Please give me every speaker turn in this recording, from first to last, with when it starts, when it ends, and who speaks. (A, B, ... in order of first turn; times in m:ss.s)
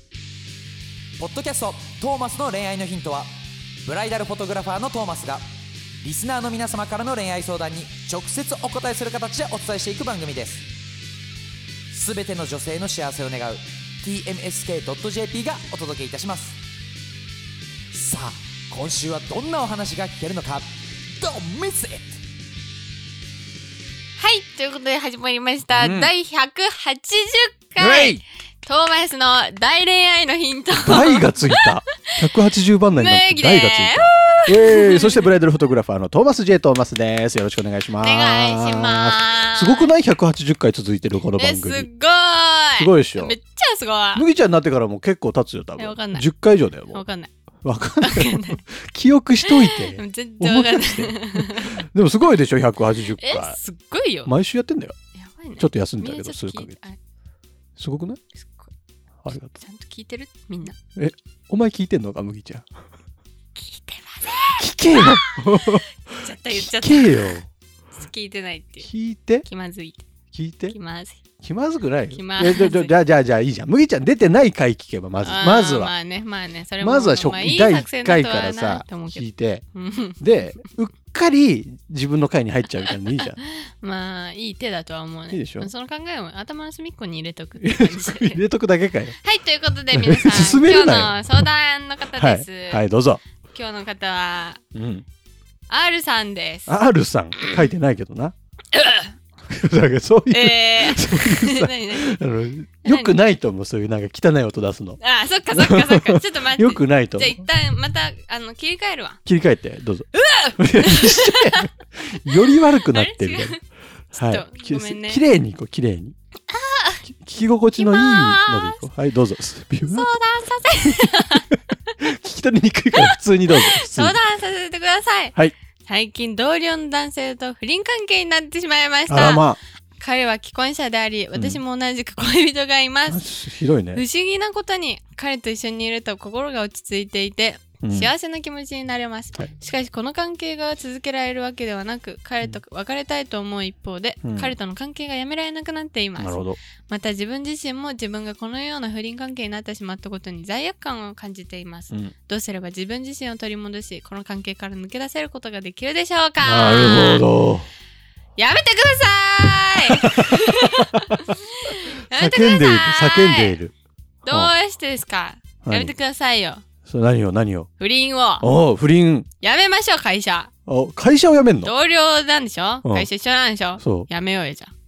0:01.2-0:03.3 A
0:03.8-0:05.4 A
0:06.0-0:10.7 A
0:11.9-0:16.6 A
0:17.9-0:20.7 A
0:21.2-0:22.0 A
0:24.2-0:31.8 B
0:25.7-0:26.1 C
0:27.8-0:28.2 C
0:30.7-0:41.9 C
0:32.9-0:35.3 B
0:38.0-0:39.9 B
0:41.4-0:44.2 B
0:42.8-0:43.4 C
0:44.2-0:47.0 C
0:45.8-0:46.3 B
0:46.9-0:47.3 B
0:47.6-0:53.6 C
0:48.0-0:48.6 B
0:49.5-0:51.8 B
0:53.2-0:54.3 B
0:54.3-0:54.9 C
0:55.2-0:57.0 B
0:55.6-0:56.8 C
0:57.8-0:58.2 C
0:58.4-0:58.7 B
0:59.2-0:59.6 C
0:59.3-1:00.8 B
1:01.0-1:02.7 C
1:03.6-1:07.4 B
1:04.5-1:07.5 C
1:08.0-1:08.9 B
1:08.8-1:09.5 C
1:09.4-1:10.1 B
1:10.3-1:10.8 C
1:10.7-1:11.2 B
1:11.4-1:15.9 C
1:12.1-1:12.9 B
1:15.2-1:20.2 B
1:16.8-1:19.6 C
1:20.2-1:23.4 C
1:22.9-1:28.4 B
1:25.3-1:25.7 C
1:27.6-1:29.2 C
1:29.2-1:32.8 B
1:29.9-1:31.5 C
1:32.1-1:33.2 C
1:33.5-1:34.6 B
1:34.7-1:35.0 C
1:35.7-1:36.7 B
1:36.7-1:38.3 C
1:37.4-1:37.7 B
1:38.7-1:39.1 B
1:39.5-1:45.0 C
1:40.3-1:42.2 B
1:42.8-1:43.2 B
1:45.0-1:49.2 B
1:45.5-1:47.4 C
1:49.3-1:53.6 C
1:50.2-1:51.7 B
1:52.4-1:55.2 B
1:54.1-1:56.2 C
1:56.5-1:57.0 B
1:57.0-2:00.1 C
1:57.8-1:58.8 B
1:59.9-2:01.9 B
2:00.7-2:01.4 C
2:02.0-2:04.2 C
2:03.0-2:09.5 B
2:09.1-2:09.6 C
2:10.0-2:13.2 B
2:11.3-2:11.6 C
2:13.1-2:14.0 C
2:13.9-2:37.3 B
2:17.8-2:18.1 C
2:24.2-2:24.5 C
2:26.2-2:26.6 C
2:36.4-2:37.7 C
2:38.4-2:43.6 B
2:39.9-2:40.4 C
2:42.1-2:43.7 C
2:44.2-2:46.6 B
2:45.6-2:45.9 C
2:46.8-2:47.7 C
2:47.8-2:48.5 B
2:48.4-2:49.3 C
2:49.4-2:50.5 B
2:50.7-2:51.7 C
2:51.6-2:54.7 B
2:53.8-2:54.1 C